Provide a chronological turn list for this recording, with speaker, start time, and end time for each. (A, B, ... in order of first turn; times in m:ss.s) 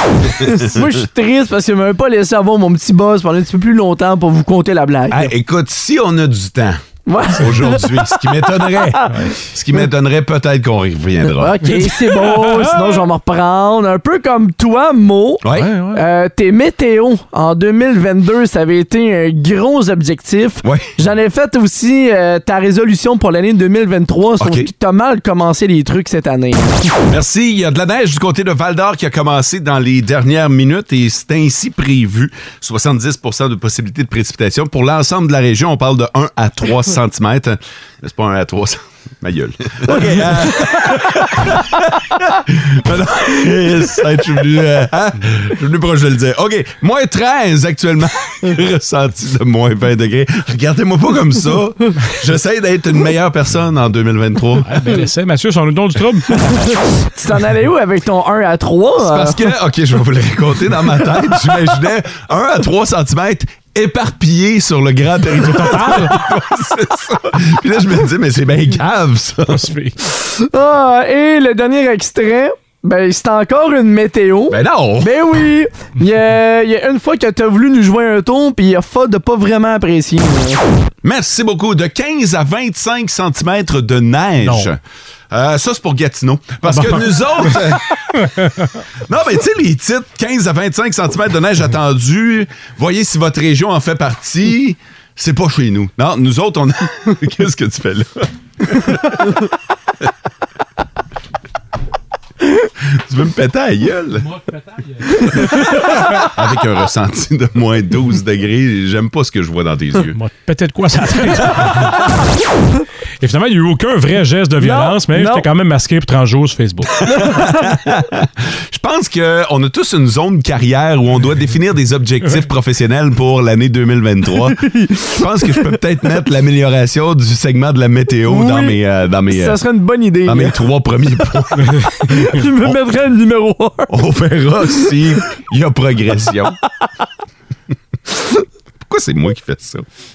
0:00.4-0:00.9 A
0:00.4-0:05.3 B
0:05.1-0:06.8 A
0:07.1-0:07.8 B
0:07.3-0:11.7 A
0:08.7-0:09.1 B
0:11.4-0:26.8 B
0:11.7-0:13.0 C
0:15.4-0:15.7 A
0:15.5-0:16.0 C
0:20.6-0:20.9 A
0:24.4-0:24.7 A
0:27.1-0:54.9 A
0:39.9-0:40.5 B
0:54.6-0:56.6 C
0:56.7-0:59.4 B
0:59.0-1:09.7 A
1:05.4-1:06.2 C
1:09.5-1:10.0 C
1:10.2-1:20.6 B
1:14.5-1:15.2 A
1:21.0-1:24.8 A
1:24.4-1:24.7 C
1:25.3-1:27.8 A
1:26.6-1:27.5 C
1:29.1-1:39.4 A
1:43.0-1:44.4 A
1:45.2-1:50.2 A
1:50.1-1:52.0 C
1:53.2-1:57.0 C
1:54.6-1:55.4 B
1:57.2-1:57.4 B
1:57.2-2:09.6 A
2:04.6-2:05.6 B
2:08.2-2:08.8 B
2:09.3-2:10.6 B
2:10.2-2:12.0 A
2:12.0-2:14.0 B
2:12.5-2:12.8 A
2:13.9-2:16.6 A
2:18.8-2:19.8 A